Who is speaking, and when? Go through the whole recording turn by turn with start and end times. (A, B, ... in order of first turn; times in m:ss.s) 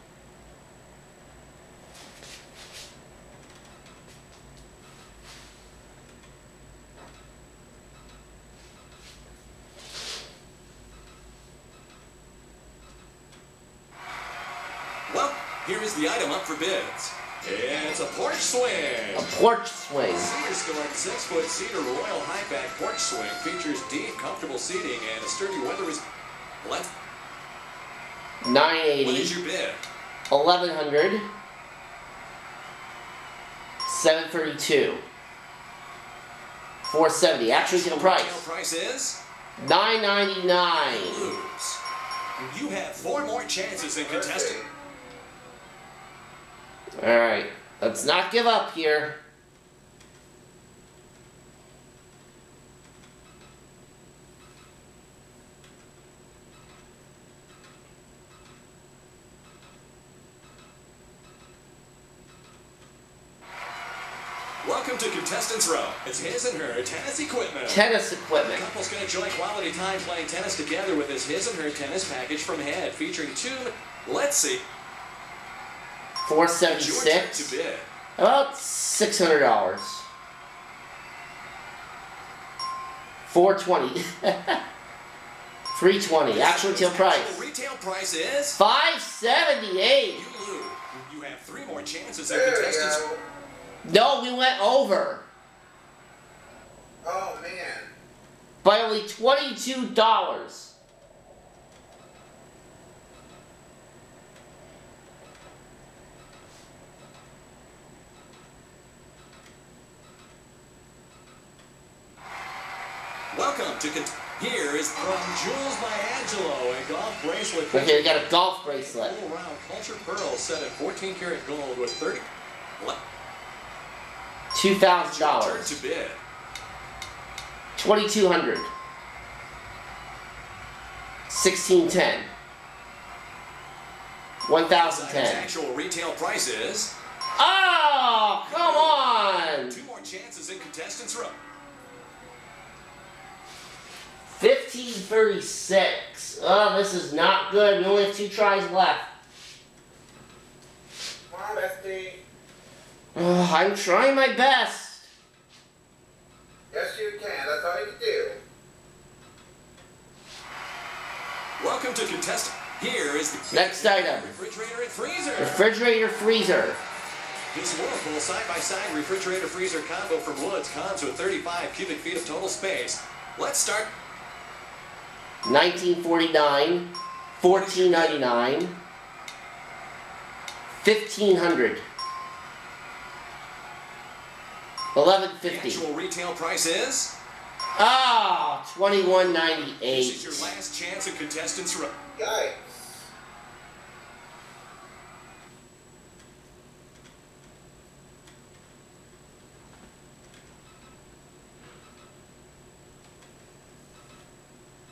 0:15.1-0:19.3 A
0:19.1-0:20.3 B
0:20.1-0:26.0 A
0:26.6-0:26.9 A
0:28.4-0:29.3 B
0:29.0-0:29.8 A
0:30.3-0:31.3 B
0:33.8-0:35.0 B
0:36.8-0:38.4 B
0:37.5-0:39.2 A
0:39.6-0:41.3 B
0:40.9-0:41.8 A
0:42.5-0:44.6 A
0:44.0-0:44.7 C
0:47.0-0:49.2 B
1:04.6-1:07.8 A
1:07.7-1:08.6 B
1:08.4-1:14.6 A
1:16.2-1:17.5 B
1:16.7-1:17.9 A
1:18.2-1:20.1 B
1:23.3-1:24.6 B
1:25.7-1:27.4 B
1:26.3-1:28.6 A
1:28.6-1:30.2 B
1:30.1-1:33.0 A
1:32.3-1:33.2 C
1:33.8-1:35.2 B
1:37.0-1:37.9 C
1:38.6-1:40.8 B
1:53.3-2:02.2 A
1:57.7-1:59.2 B
2:04.5-2:05.8 B
2:05.0-2:06.2 A
2:07.8-2:08.7 B
2:11.3-2:12.3 B
2:14.4-2:15.5 B
2:14.7-2:16.9 A
2:17.4-2:19.8 B
2:18.4-2:21.4 A
2:24.3-2:29.1 B
2:31.3-2:32.2 C
2:33.2-2:35.1 B
2:36.7-2:38.4 C
2:41.6-2:45.6 A
2:43.5-2:44.4 B
2:45.4-2:46.8 B
2:47.5-2:53.9 A
2:55.4-2:58.8 B
2:57.4-2:58.2 A
3:00.8-3:01.8 B
3:04.9-3:05.8 B
3:05.4-3:07.1 A
3:07.8-3:10.5 B
3:08.9-3:11.9 A
3:12.2-3:13.1 C